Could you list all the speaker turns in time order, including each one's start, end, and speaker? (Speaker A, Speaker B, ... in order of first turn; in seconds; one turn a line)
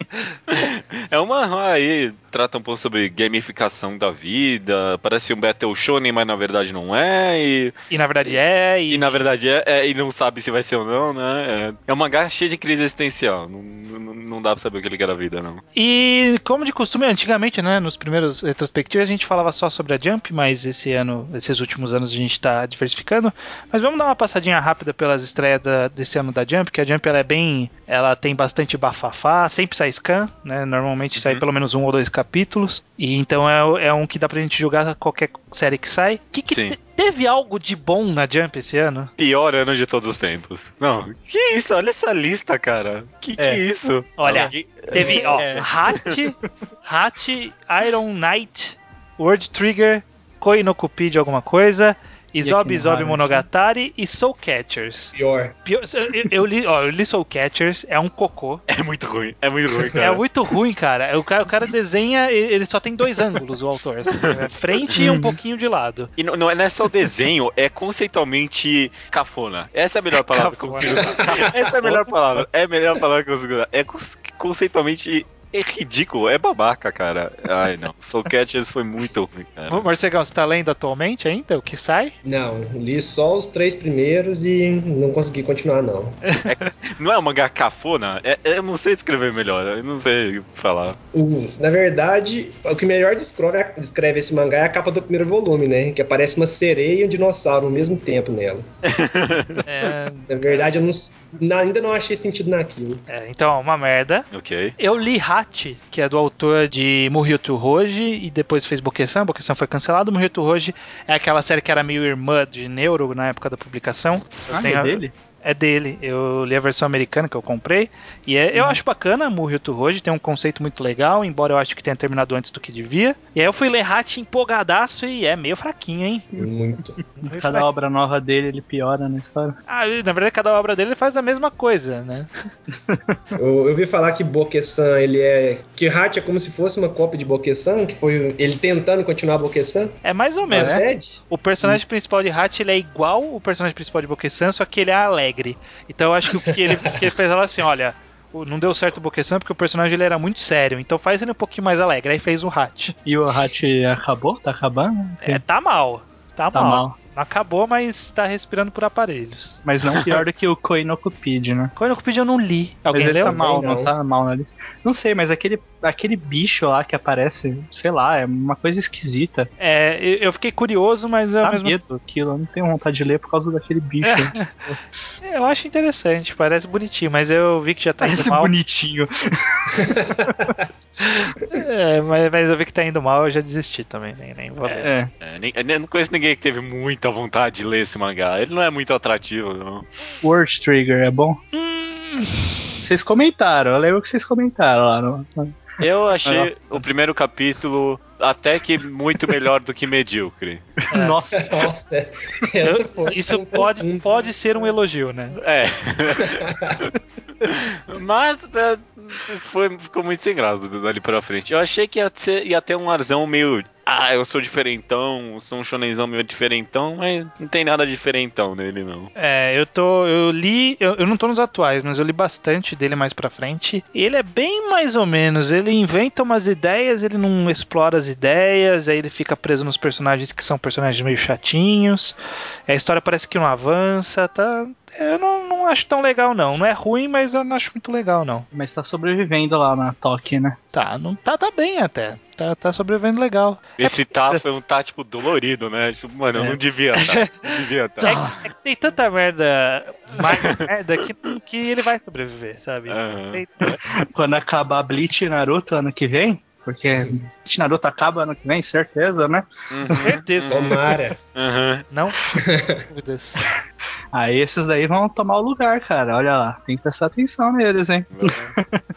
Speaker A: 0.5-7.7
Speaker B: 7.9-9.2
Speaker A: 8.9-15.6
Speaker B: 15.8-39.1
Speaker A: 31.2-31.4
Speaker A: 39.2-46.1
Speaker B: 44.2-55.1
Speaker C: 45.0-45.6
Speaker C: 52.4-53.4
Speaker D: 55.1-55.5
Speaker B: 55.6-58.6
Speaker A: 58.7-60.2
Speaker B: 59.9-66.1
Speaker A: 64.1-64.4
Speaker C: 64.9-65.3
Speaker A: 66.2-79.9
Speaker B: 70.3-72.1
Speaker D: 71.2-71.5
Speaker B: 79.7-82.1
Speaker D: 82.2-86.2
Speaker B: 86.3-86.5
Speaker A: 86.4-91.0
Speaker D: 91.1-98.7
Speaker A: 98.8-99.6
Speaker B: 99.6-100.7
Speaker D: 100.3-103.0
Speaker B: 103.1-104.2
Speaker A: 104.3-104.7
Speaker B: 104.8-126.4
Speaker C: 114.5-115.1
Speaker C: 118.5-118.8
Speaker D: 126.3-127.0
Speaker B: 127.2-127.7
Speaker C: 127.2-129.6
Speaker B: 129.7-132.3
Speaker C: 132.7-133.2
Speaker D: 133.3-141.2
Speaker B: 140.0-152.9
Speaker C: 140.5-140.8
Speaker D: 146.6-146.9
Speaker C: 153.0-155.4
Speaker B: 155.2-159.6
Speaker C: 156.5-156.9
Speaker C: 159.6-161.7
Speaker A: 159.9-160.2
Speaker B: 161.8-163.4
Speaker C: 162.9-169.5
Speaker D: 163.2-163.9
Speaker B: 169.6-171.8
Speaker C: 171.4-174.6
Speaker B: 174.0-174.7
Speaker B: 175.2-178.5
Speaker C: 178.0-180.3
Speaker D: 179.8-180.7
Speaker B: 181.0-184.9
Speaker C: 184.7-185.1
Speaker A: 185.2-189.8
Speaker C: 190.2-191.4
Speaker B: 191.5-192.5
Speaker C: 192.8-195.6
Speaker A: 195.8-200.7
Speaker C: 196.2-196.8
Speaker C: 200.9-201.6
Speaker B: 200.9-201.2
Speaker D: 201.3-204.3
Speaker B: 202.6-205.4
Speaker A: 205.3-206.4
Speaker D: 206.2-206.8
Speaker A: 207.4-219.1
Speaker B: 219.2-232.1
Speaker B: 232.7-238.4
Speaker C: 238.5-240.6
Speaker B: 240.7-243.8
Speaker A: 243.8-248.4
Speaker B: 247.0-253.7
Speaker C: 248.0-248.3
Speaker A: 250.4-250.7
Speaker A: 252.9-253.8
Speaker C: 254.1-260.1
Speaker A: 259.7-261.9
Speaker B: 260.0-260.8
Speaker D: 260.4-261.2
Speaker B: 261.9-263.4
Speaker D: 262.3-262.9
Speaker C: 264.1-268.8
Speaker A: 268.1-268.5